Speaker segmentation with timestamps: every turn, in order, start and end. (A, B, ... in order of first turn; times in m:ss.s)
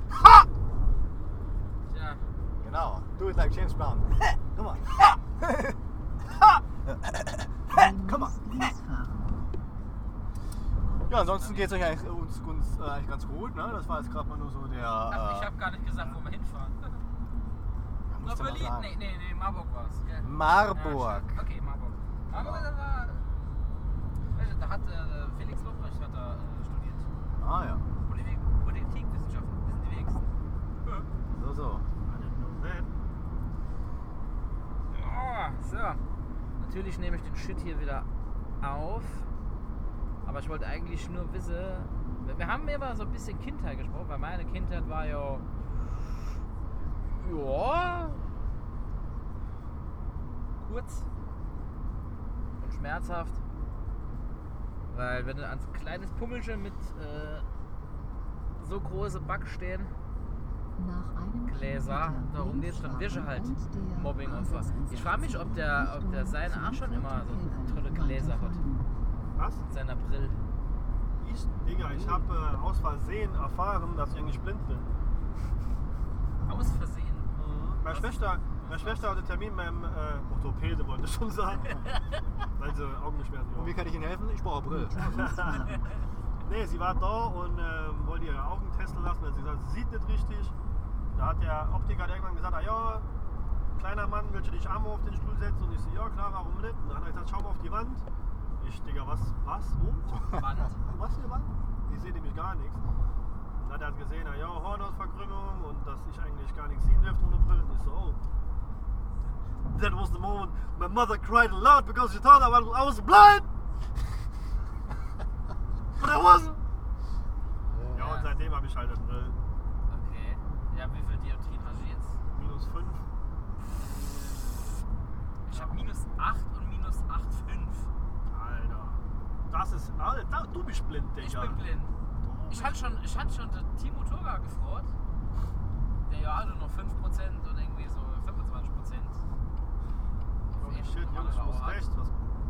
0:01.8-0:02.2 A
0:02.6-0:05.8 B
0:06.9-0:08.3 B
0:07.7-0:09.5 C
0:11.1-0:15.5 B
0:11.1-0:11.8 A
0:15.1-0:17.0 A
0:18.1-0:18.9 B
0:18.2-0:23.5 A
0:20.2-0:21.3 B
0:22.3-0:22.7 B
0:24.3-0:27.1 A
0:27.4-0:27.9 B
0:28.0-0:30.3 A
0:31.3-0:31.8 B
0:32.1-0:32.9 D
0:34.9-0:36.0 A
0:36.6-0:38.1 A
0:38.6-0:39.3 A
0:40.2-0:46.2 A
0:47.2-0:48.3 A
0:50.6-0:51.1 A
0:52.6-0:53.4 A
0:54.9-0:57.4 A
0:58.6-0:59.9 A
1:00.8-1:08.9 C
1:01.4-1:08.6 A
1:09.4-1:09.6 D
1:09.7-1:10.4 A
1:11.2-1:14.9 D
1:11.9-1:12.2 C
1:16.4-1:17.3 A
1:17.4-1:21.8 D
1:17.9-1:19.1 A
1:21.6-1:22.2 A
1:22.6-1:24.0 D
1:23.6-1:25.3 B
1:24.7-1:25.9 C
1:24.9-1:25.8 D
1:26.4-1:30.5 D
1:31.1-1:33.0 D
1:33.8-1:38.0 D
1:38.6-1:42.8 D
1:40.1-1:40.8 A
1:43.6-1:48.2 D
1:49.7-1:53.5 D
1:56.0-1:56.6 D
1:57.7-1:58.1 B
1:57.9-1:59.4 D
1:58.0-1:58.3 A
1:59.9-2:02.2 A
2:02.3-2:03.0 D
2:05.5-2:07.9 A
2:05.5-2:05.8 D
2:08.3-2:11.6 D
2:11.2-2:11.9 A
2:12.2-2:12.9 D
2:12.5-2:14.9 A
2:16.1-2:19.2 A
2:20.5-2:21.8 A
2:20.5-2:22.3 D